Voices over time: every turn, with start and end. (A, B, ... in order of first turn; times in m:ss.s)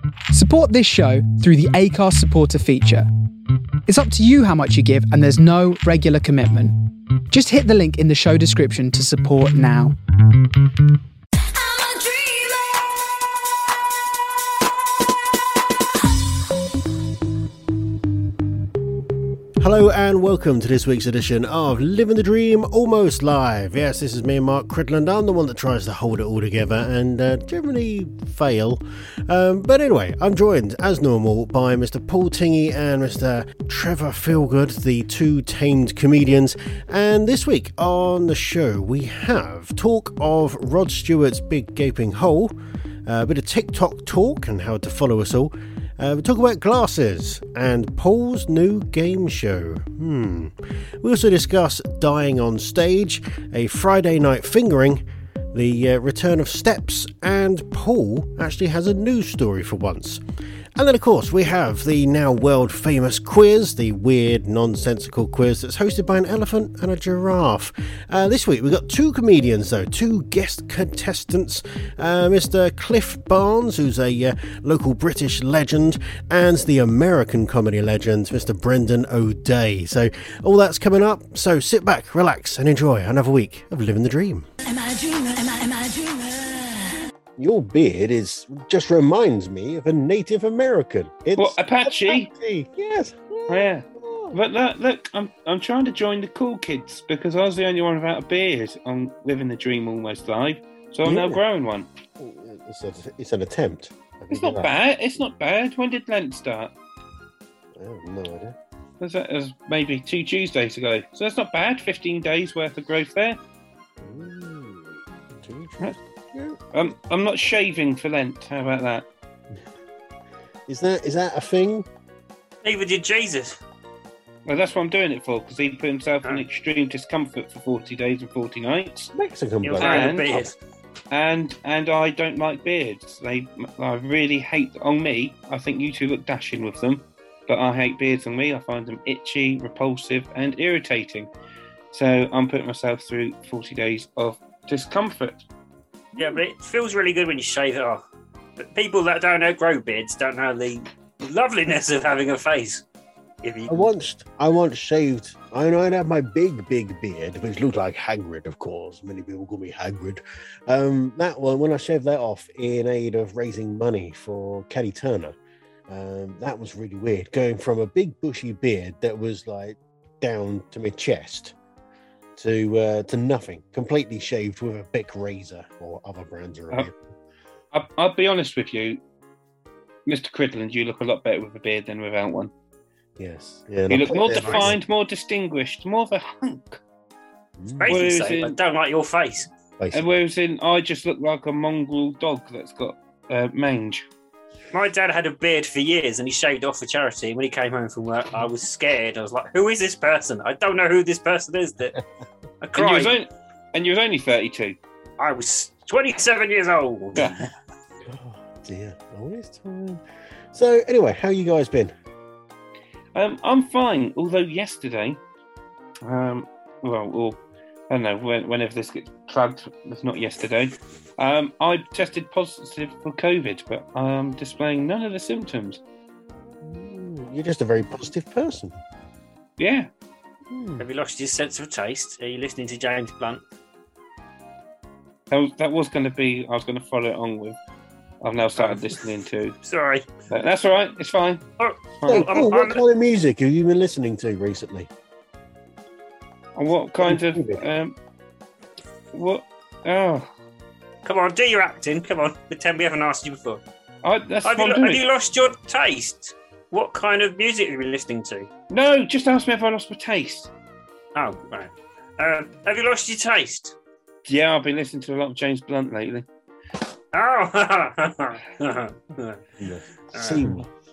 0:00.3-0:03.1 A
0:03.9-0:06.8 A
0:07.3-0:10.0 A
0:11.5-0:12.7 B
0:19.6-0:42.6 C
0:43.0-1:00.2 C
1:00.8-1:24.5 C
1:24.6-1:27.0 B
1:27.4-1:34.4 C
1:31.4-1:32.3 D
1:33.5-1:41.9 D
1:41.0-1:41.4 C
1:42.2-1:44.7 C
1:44.3-1:46.7 D
1:47.7-1:48.6 C
1:49.0-1:53.4 D
1:54.0-1:56.9 C
1:56.7-1:59.0 D
2:00.7-2:01.9 C
2:02.6-2:03.6 E
2:04.4-2:09.1 D
2:09.1-2:10.5 C
2:09.6-2:10.6 E
2:09.8-2:10.3 D
2:11.1-2:21.3 D
2:21.9-2:25.5 D
2:26.2-2:28.0 E
2:28.6-2:32.8 E
2:33.4-2:33.9 E
2:33.7-2:45.4 C
2:45.9-2:51.6 C
2:52.4-2:56.9 C
2:57.7-2:59.0 D
3:00.1-3:02.5 D
3:03.2-3:04.8 C
3:03.9-3:06.8 D
3:04.3-3:04.6 E
3:07.6-3:08.0 C
3:07.8-3:09.5 E
3:07.9-3:08.6 D
3:09.8-3:10.1 C
3:09.9-3:14.0 D
3:14.7-3:22.0 E
3:22.6-3:23.2 E
3:22.8-3:24.8 D
3:25.2-3:27.5 E
3:28.0-3:30.0 C
3:30.5-3:31.9 C
3:33.1-3:35.2 D
3:36.0-3:37.4 D
3:37.9-3:45.8 D
3:46.6-3:48.7 C
3:49.6-3:49.9 D
3:50.5-3:50.8 C
3:50.8-3:53.4 E
3:55.3-3:57.6 D
3:58.2-3:59.6 D
3:59.6-4:00.1 E
4:00.3-4:01.4 D
4:01.6-4:02.8 E
4:02.0-4:02.3 D
4:02.1-4:04.9 C
4:06.6-4:08.0 D
4:07.0-4:07.6 C
4:09.1-4:10.3 D
4:11.0-4:13.6 E
4:14.0-4:15.0 D
4:14.4-4:18.5 E
4:18.7-4:20.5 D
4:21.1-4:23.8 E
4:24.2-4:26.2 D
4:27.1-4:29.4 E
4:29.6-4:30.7 C
4:30.1-4:30.5 E